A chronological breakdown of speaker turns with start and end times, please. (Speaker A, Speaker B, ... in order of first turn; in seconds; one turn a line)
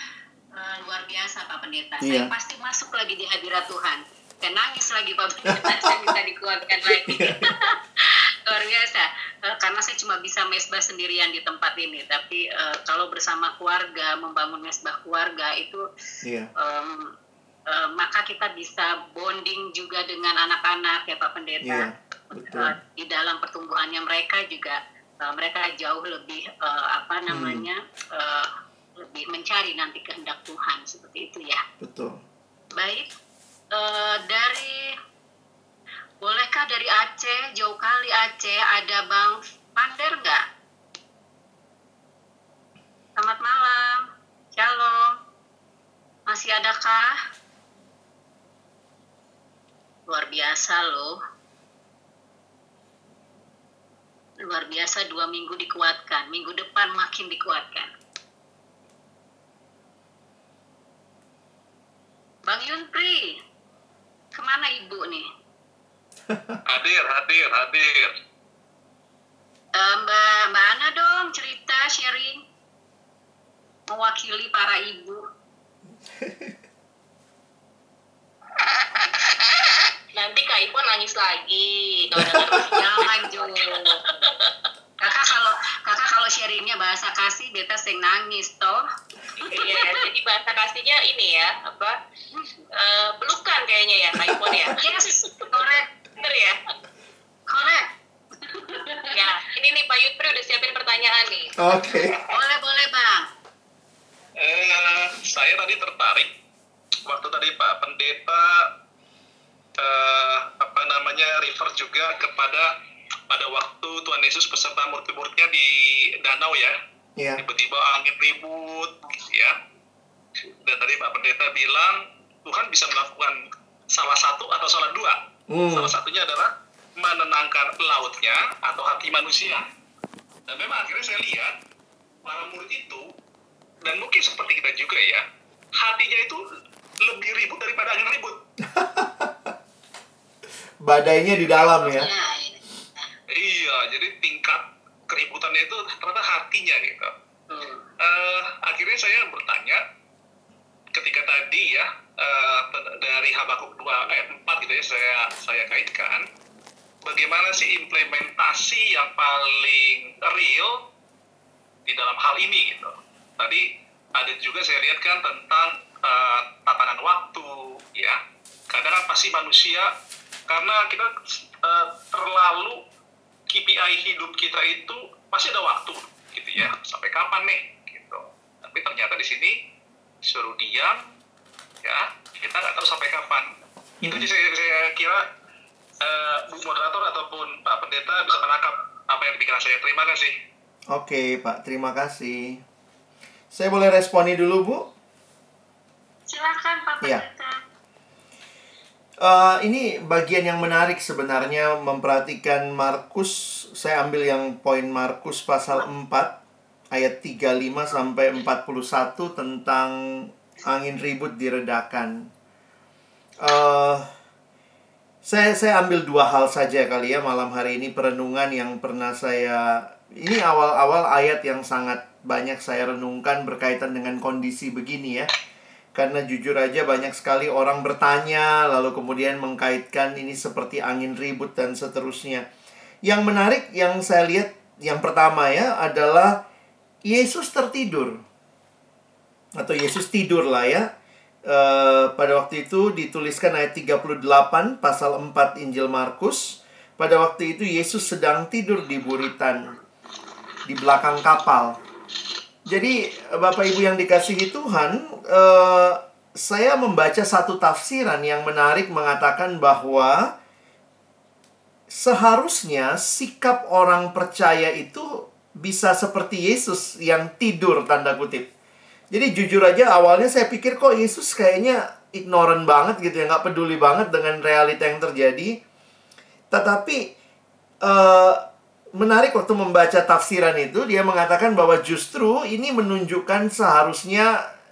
Speaker A: 0.5-15.8
Speaker B: 2.0-2.3
Speaker B: 5.5-6.1
Speaker B: 6.9-7.4
Speaker B: 16.2-16.5
Speaker A: 16.6-17.1
Speaker A: 17.7-31.6
Speaker B: 21.6-22.7
Speaker B: 27.3-27.6
Speaker B: 31.8-32.2
Speaker A: 32.8-33.1
Speaker A: 33.7-34.9
Speaker A: 36.2-40.4
Speaker A: 43.2-45.1
Speaker A: 46.3-47.1
Speaker A: 50.1-51.2
Speaker A: 54.5-57.9
Speaker A: 62.5-63.4
Speaker A: 64.3-65.3
Speaker B: 66.3-66.6
Speaker C: 66.7-68.1
Speaker A: 69.8-72.4
Speaker A: 73.9-75.2
Speaker B: 76.2-76.5
Speaker D: 78.7-79.3
Speaker D: 80.1-84.5
Speaker A: 82.6-84.0
Speaker A: 85.0-88.8
Speaker D: 89.4-92.0
Speaker D: 92.8-96.6
Speaker A: 94.8-95.8
Speaker A: 97.5-97.9
Speaker A: 98.4-99.0
Speaker D: 99.1-101.5
Speaker B: 101.6-102.2
Speaker A: 102.3-103.3
Speaker C: 104.4-106.3
Speaker C: 107.0-108.7
Speaker C: 109.8-112.7
Speaker C: 113.3-116.7
Speaker B: 117.2-117.4
Speaker C: 117.4-119.5
Speaker C: 120.5-123.4
Speaker C: 123.9-129.6
Speaker B: 125.5-125.9
Speaker C: 130.5-131.6
Speaker C: 132.2-133.1
Speaker C: 133.8-135.2
Speaker C: 135.8-136.4
Speaker C: 137.0-138.4
Speaker B: 138.7-139.5
Speaker B: 140.8-142.1
Speaker A: 141.8-142.6
Speaker C: 143.3-147.1
Speaker A: 147.5-147.8
Speaker C: 148.0-149.8
Speaker C: 150.9-156.2
Speaker C: 157.0-160.8
Speaker C: 161.8-168.2
Speaker C: 168.7-169.9
Speaker C: 170.5-171.1
Speaker C: 171.6-172.8
Speaker C: 173.5-179.6
Speaker C: 180.2-181.0
Speaker C: 181.8-183.5
Speaker B: 184.0-184.3
Speaker C: 184.0-185.2
Speaker C: 186.0-190.3
Speaker B: 190.9-192.6
Speaker B: 193.5-194.9
Speaker A: 196.3-197.6
Speaker B: 199.2-206.4
Speaker B: 206.9-209.9
Speaker B: 210.6-212.2
Speaker B: 213.4-214.1
Speaker B: 215.2-225.3
Speaker B: 225.9-232.4
Speaker B: 233.0-236.4
Speaker B: 237.1-238.2
Speaker B: 239.6-240.9
Speaker B: 241.5-249.7
Speaker B: 250.7-251.8
Speaker B: 252.7-260.3
Speaker B: 261.9-268.5
Speaker B: 269.1-275.5
Speaker B: 276.5-277.1
Speaker B: 277.8-278.4
Speaker B: 279.0-284.3